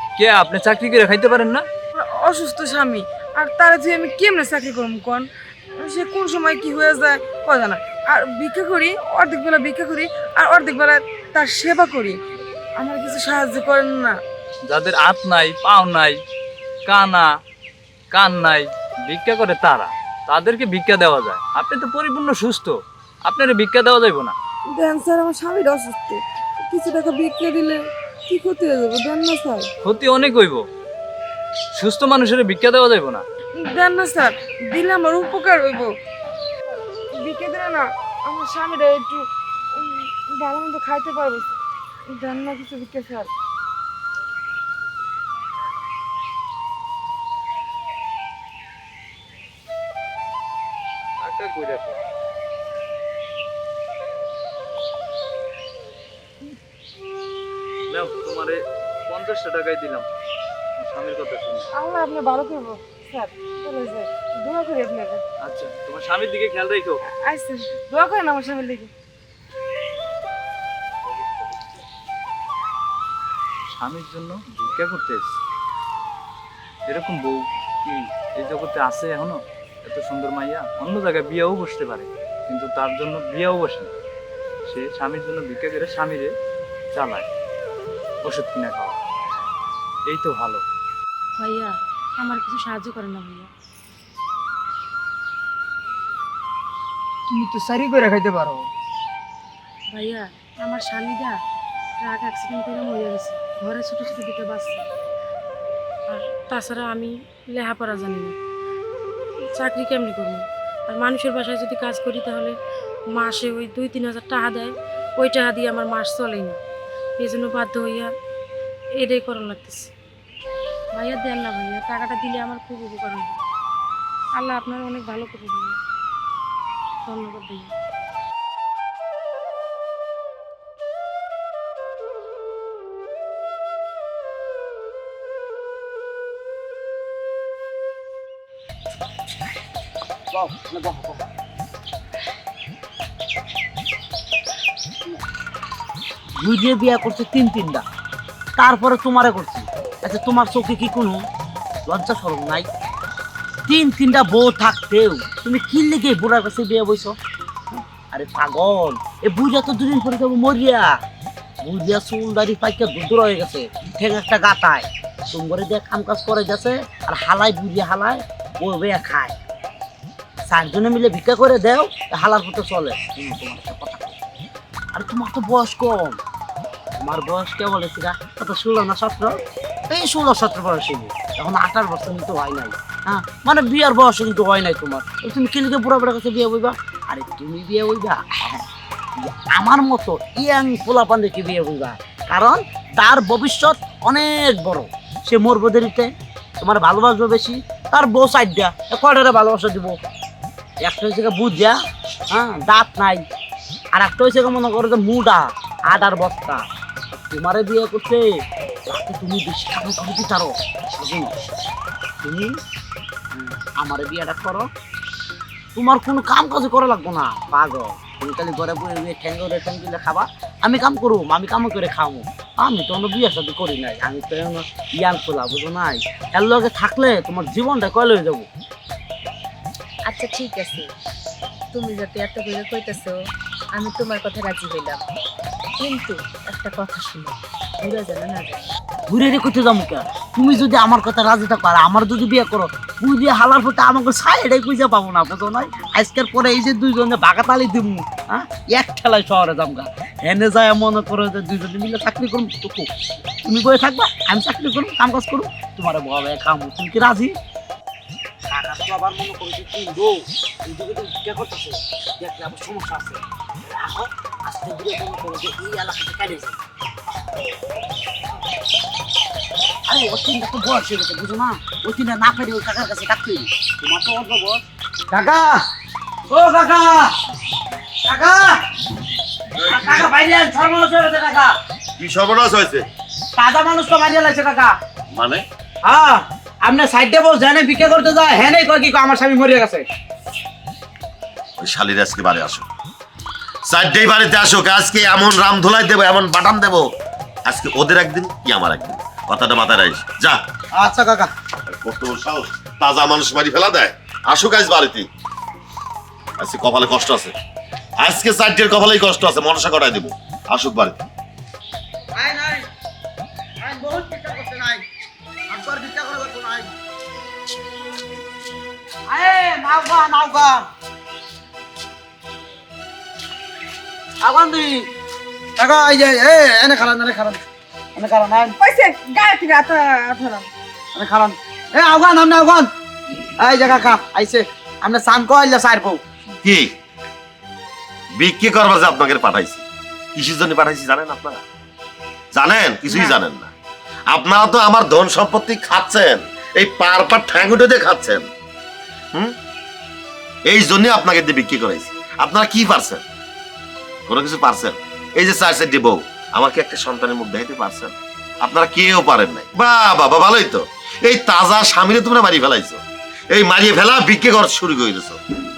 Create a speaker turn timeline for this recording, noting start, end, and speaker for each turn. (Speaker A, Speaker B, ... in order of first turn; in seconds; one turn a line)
Speaker A: 0.2-1.6
Speaker B: 1.9-12.2
Speaker B: 12.8-14.2
Speaker A: 14.7-16.2
Speaker A: 16.9-17.3
Speaker A: 18.1-22.8
Speaker A: 23.3-24.4
Speaker B: 24.7-29.7
Speaker A: 29.8-30.6
Speaker A: 31.8-33.2
Speaker B: 33.5-36.0
Speaker B: 37.1-43.3
Speaker A: 51.2-52.0
Speaker A: 57.9-60.1
Speaker A: 60.8-61.7
Speaker B: 61.7-65.2
Speaker A: 65.4-67.0
Speaker B: 67.0-68.9
Speaker A: 73.7-75.4
Speaker A: 76.9-83.9
Speaker A: 84.7-86.3
Speaker A: 86.9-87.3
Speaker A: 88.2-89.0
Speaker A: 90.1-90.7
Speaker C: 91.4-93.5
Speaker B: 97.3-98.6
Speaker C: 99.9-101.4
Speaker C: 102.0-104.8
Speaker C: 106.1-108.4
Speaker C: 109.5-112.6
Speaker C: 113.1-116.6
Speaker C: 117.2-118.1
Speaker C: 119.0-119.9
Speaker C: 120.9-123.4
Speaker C: 124.4-125.8
Speaker C: 127.0-127.7
Speaker D: 140.3-141.3
Speaker D: 146.4-147.8
Speaker D: 148.6-151.2
Speaker D: 151.9-152.7
Speaker D: 153.7-157.2
Speaker D: 157.7-160.9
Speaker D: 161.6-169.3
Speaker D: 170.5-174.2
Speaker D: 174.9-176.2
Speaker D: 177.0-179.3
Speaker D: 179.9-188.7
Speaker D: 189.2-196.1
Speaker D: 196.6-200.0
Speaker D: 200.8-201.8
Speaker D: 202.3-203.2
Speaker D: 204.0-208.3
Speaker D: 208.9-211.3
Speaker D: 212.2-212.6
Speaker D: 213.3-214.7
Speaker D: 215.8-228.5
Speaker E: 230.1-230.9
Speaker E: 231.7-233.2
Speaker E: 233.7-235.1
Speaker E: 235.8-238.8
Speaker D: 239.1-252.9
Speaker D: 253.4-257.3
Speaker D: 258.5-266.6
Speaker D: 269.9-275.6
Speaker D: 276.3-277.1
Speaker D: 278.1-278.6
Speaker F: 279.6-280.1
Speaker D: 279.6-281.5
Speaker F: 282.0-282.9
Speaker D: 283.4-284.7
Speaker F: 285.1-285.4
Speaker D: 285.9-289.9
Speaker F: 291.6-292.7
Speaker F: 293.7-296.9
Speaker F: 297.5-300.4
Speaker D: 300.8-301.3
Speaker F: 301.7-305.1
Speaker F: 306.4-307.3
Speaker F: 308.0-311.0
Speaker D: 312.2-312.7
Speaker D: 313.6-314.8
Speaker D: 315.5-316.7
Speaker D: 319.1-320.7
Speaker D: 324.2-324.9
Speaker D: 325.6-327.4
Speaker D: 327.9-328.6
Speaker B: 328.6-330.5
Speaker D: 330.9-332.7
Speaker D: 333.4-336.0
Speaker F: 336.4-336.7
Speaker F: 338.1-341.4
Speaker F: 342.3-343.5
Speaker F: 344.1-348.3
Speaker F: 350.5-353.0
Speaker F: 354.1-365.2